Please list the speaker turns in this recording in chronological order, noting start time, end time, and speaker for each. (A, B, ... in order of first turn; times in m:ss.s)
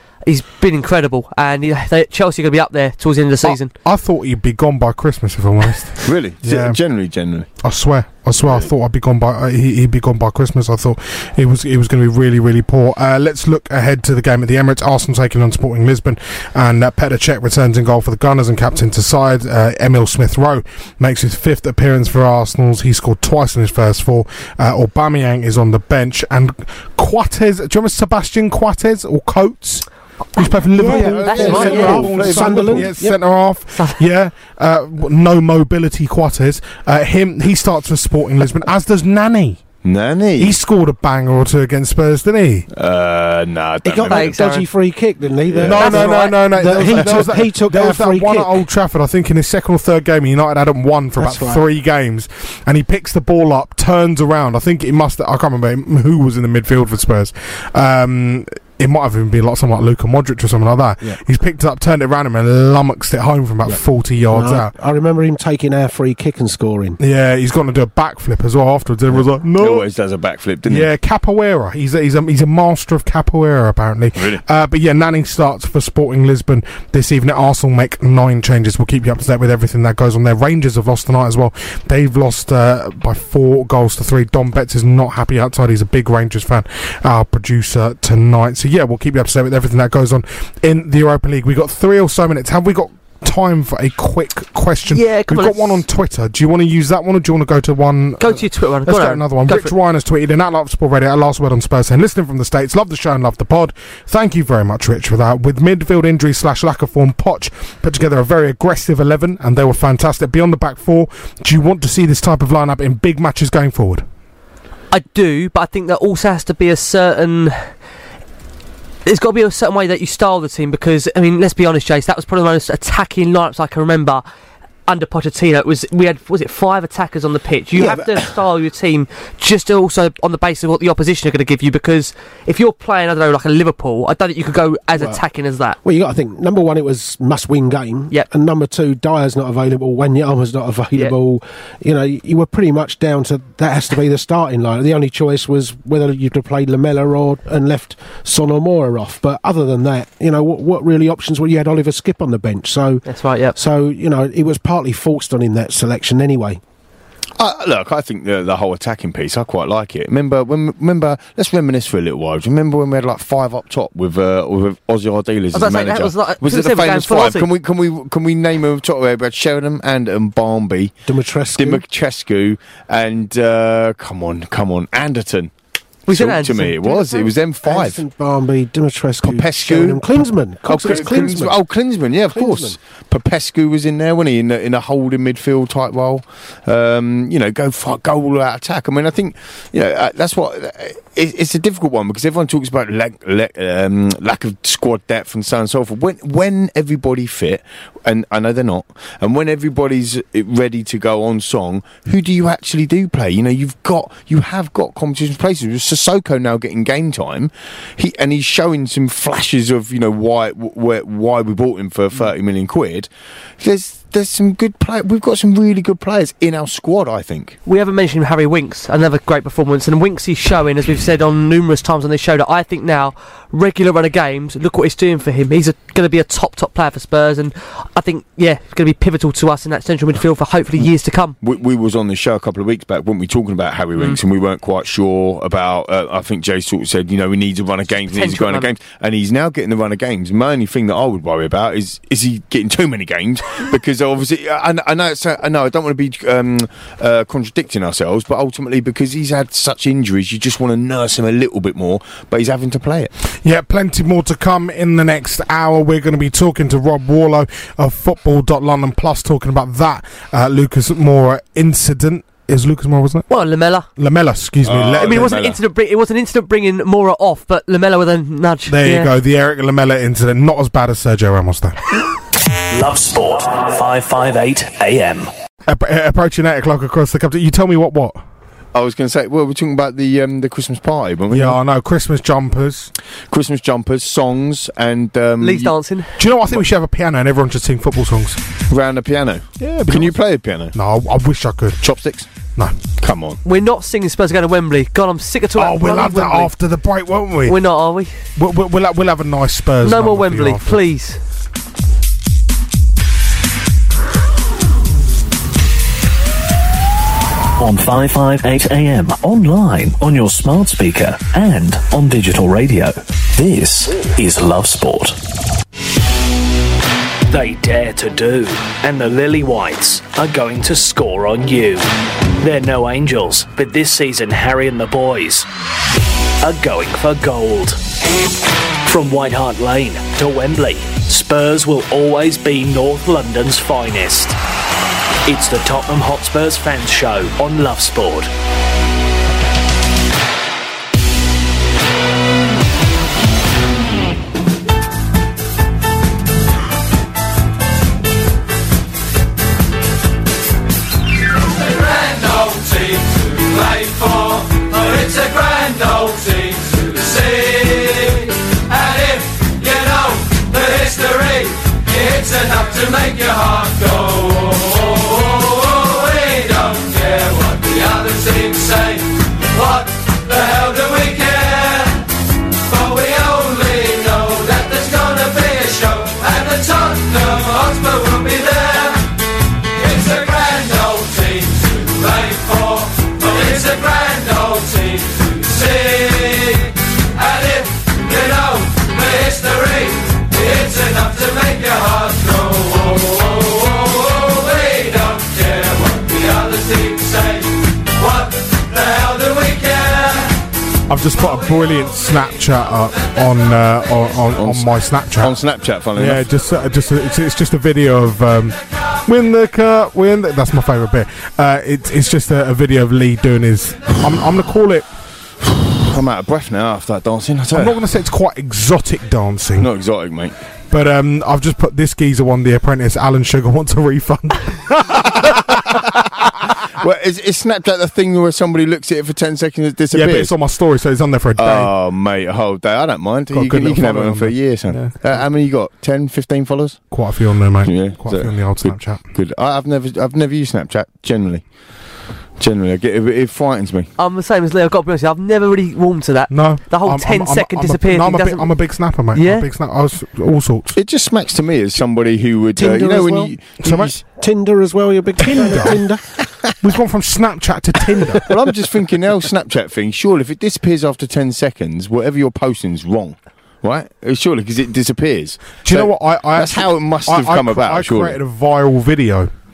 0:00.2-0:03.7 A
0:03.4-0:06.8 B
0:06.0-0:07.5 C
0:07.6-0:39.6 B
0:08.4-0:08.7 C
0:30.4-0:32.8 A
0:30.9-0:32.9 C
0:31.0-0:33.2 D
0:33.7-0:34.0 A
0:39.8-0:40.6 C
0:40.4-0:42.7 B
0:42.7-0:44.3 C
0:43.8-0:48.6 D
0:44.0-0:44.7 A
0:45.5-0:45.8 C
0:45.7-1:04.7 B
0:45.7-0:47.3 A
0:51.2-0:51.6 D
1:04.3-1:07.0 D
1:07.0-1:09.9 B
1:09.1-1:10.9 C
1:10.6-1:54.0 B
1:34.9-1:35.8 A
1:38.2-1:39.7 A
1:54.9-1:57.7 A
1:59.0-2:04.2 A
2:04.9-2:15.8 A
2:07.7-2:08.1 D
2:15.8-2:33.0 D
2:33.0-2:33.6 A
2:33.5-2:36.6 D
2:37.4-2:51.0 C
2:45.5-2:47.5 A
2:51.0-2:51.8 D
2:51.6-2:55.5 C
2:56.0-2:57.2 A
2:56.1-2:58.0 C
2:56.9-3:01.6 D
2:59.2-3:33.1 C
3:02.3-3:02.8 D
3:33.6-3:37.6 C
3:37.6-3:51.4 A
3:51.4-4:13.1 C
3:58.1-3:58.7 A
4:13.4-4:23.2 B
4:23.3-4:23.9 A
4:24.0-4:25.4 B
4:24.6-4:25.6 C
4:25.0-4:29.1 A
4:28.7-4:31.8 B
4:32.7-4:35.3 E
4:35.7-4:38.2 B
4:38.7-4:41.6 C
4:41.3-4:42.9 B
4:43.3-4:45.7 C
4:45.4-4:46.2 A
4:46.2-4:48.4 B
4:48.7-4:50.7 C
4:49.6-4:50.2 B
4:50.7-4:51.8 B
4:51.8-4:52.3 C
4:53.0-4:53.4 C
4:53.4-4:56.5 A
4:55.6-4:57.6 B
4:57.4-4:58.1 A
4:58.4-5:00.8 B
4:59.8-5:01.2 A
5:07.6-5:15.2 F
5:17.3-5:21.9 E
5:22.4-5:25.5 E
5:26.4-5:27.8 E
5:28.8-5:34.4 E
5:35.2-5:38.3 E
6:40.9-6:54.8 B
6:44.3-6:46.3 C
6:55.9-6:57.8 C
6:57.5-6:59.7 B
6:59.6-7:00.4 C
7:00.7-7:05.8 B
7:06.8-7:10.3 C
7:09.9-7:11.7 B
7:11.4-7:16.9 C
7:13.3-7:15.3 B
7:16.9-7:19.1 B
7:17.6-7:21.4 C
7:22.4-7:23.9 C
7:24.0-7:29.5 A
7:26.3-7:30.8 B
7:30.8-7:33.9 C
7:32.6-7:36.0 D
7:33.6-7:33.9 B
7:35.2-7:35.8 B
7:36.6-7:38.3 B
7:38.3-7:48.2 C
7:45.6-7:49.3 B